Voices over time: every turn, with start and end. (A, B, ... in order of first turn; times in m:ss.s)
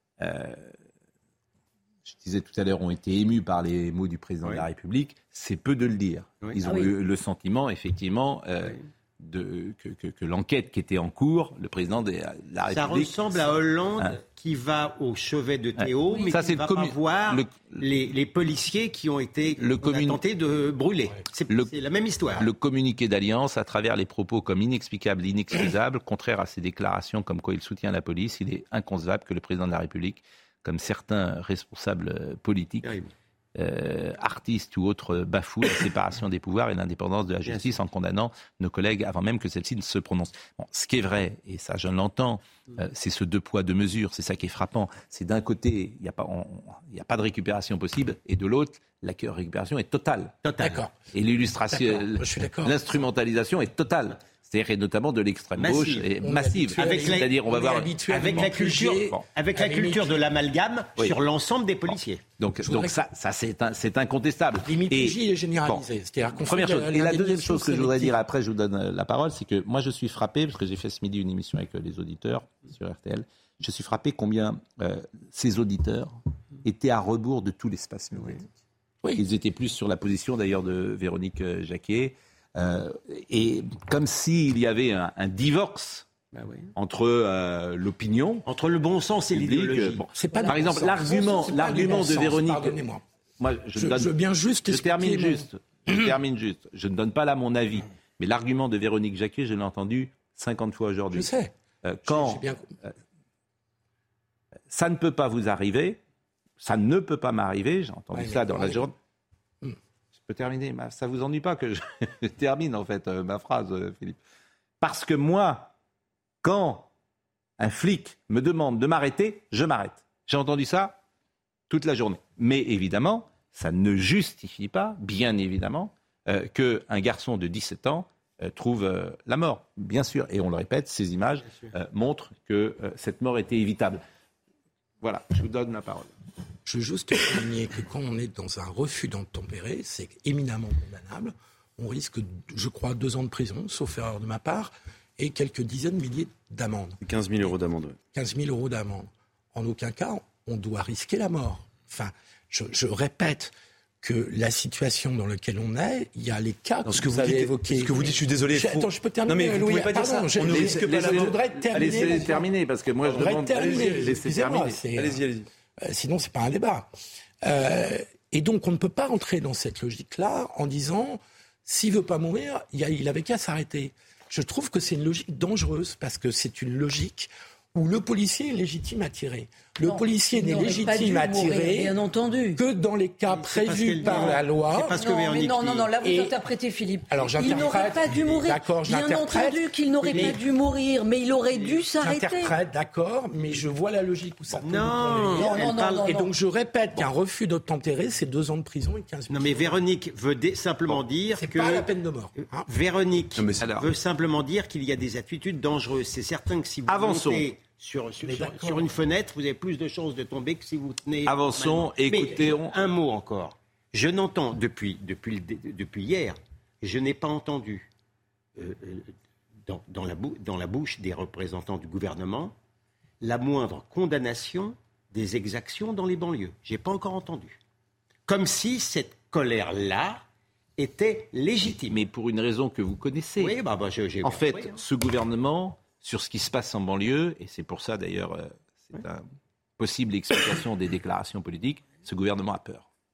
0:00.2-0:00.7 A
0:02.0-0:14.1 A
0:06.6-0:06.9 B
0:12.7-0:22.5 C
0:15.8-0:17.8 A
0:19.6-0:20.2 A
0:22.4-0:32.9 A
0:32.8-0:33.1 C
0:33.6-0:50.4 A
0:37.5-0:37.8 C
0:50.4-0:50.8 C
0:50.6-0:50.9 D
0:51.1-0:58.0 A
0:51.7-0:52.8 D
0:55.6-0:57.4 C
0:56.2-1:00.2 D
0:58.0-1:02.2 C
1:02.4-1:05.8 A
1:02.6-1:03.0 D
1:04.6-1:08.2 D
1:06.4-1:18.4 A
1:18.1-1:18.4 C
1:19.2-1:26.1 A
1:26.3-1:26.7 C
1:26.8-1:28.4 A
1:28.5-1:30.1 C
1:29.3-1:32.8 A
1:30.2-1:33.0 D
1:33.4-1:34.1 A
1:33.8-1:36.1 D
1:34.7-1:41.3 A
1:41.1-1:41.5 D
1:41.8-1:42.9 A
1:42.0-1:42.7 D
1:44.7-1:46.0 A
1:46.6-1:49.0 A
1:48.1-1:48.9 D
1:50.2-1:54.2 A
1:54.8-1:55.7 A
1:56.4-1:56.9 A
1:57.6-2:01.0 A
2:01.7-2:14.0 A
2:15.0-2:16.1 A
2:16.7-2:27.0 D
2:27.0-2:28.0 E
2:28.1-2:42.5 D
2:36.8-2:42.3 E
2:40.5-2:44.8 A
2:43.0-2:45.2 D
2:43.2-2:44.1 E
2:44.9-2:45.5 E
2:45.8-2:46.9 D
2:47.4-3:02.0 D
2:59.8-3:02.6 B
3:02.6-3:05.0 D
3:03.3-3:06.0 C
3:04.0-3:04.3 B
3:05.0-3:12.6 B
3:06.0-3:06.3 D
3:07.1-3:10.4 D
3:12.0-3:19.8 D
3:14.6-3:16.0 C
3:15.3-3:16.3 B
3:19.3-3:21.9 C
3:21.3-3:22.7 D
3:22.4-3:37.9 C
3:23.4-3:23.9 E
3:23.6-3:23.9 A
3:26.9-3:27.5 A
3:28.2-3:29.0 D
3:31.2-3:32.8 A
3:38.6-3:39.1 C
3:39.6-3:42.5 C
3:43.2-3:47.6 C
3:48.3-3:50.2 C
3:50.8-3:52.0 C
3:51.7-3:53.6 A
3:53.4-3:54.8 C
3:54.2-3:59.2 A
3:59.8-4:02.8 A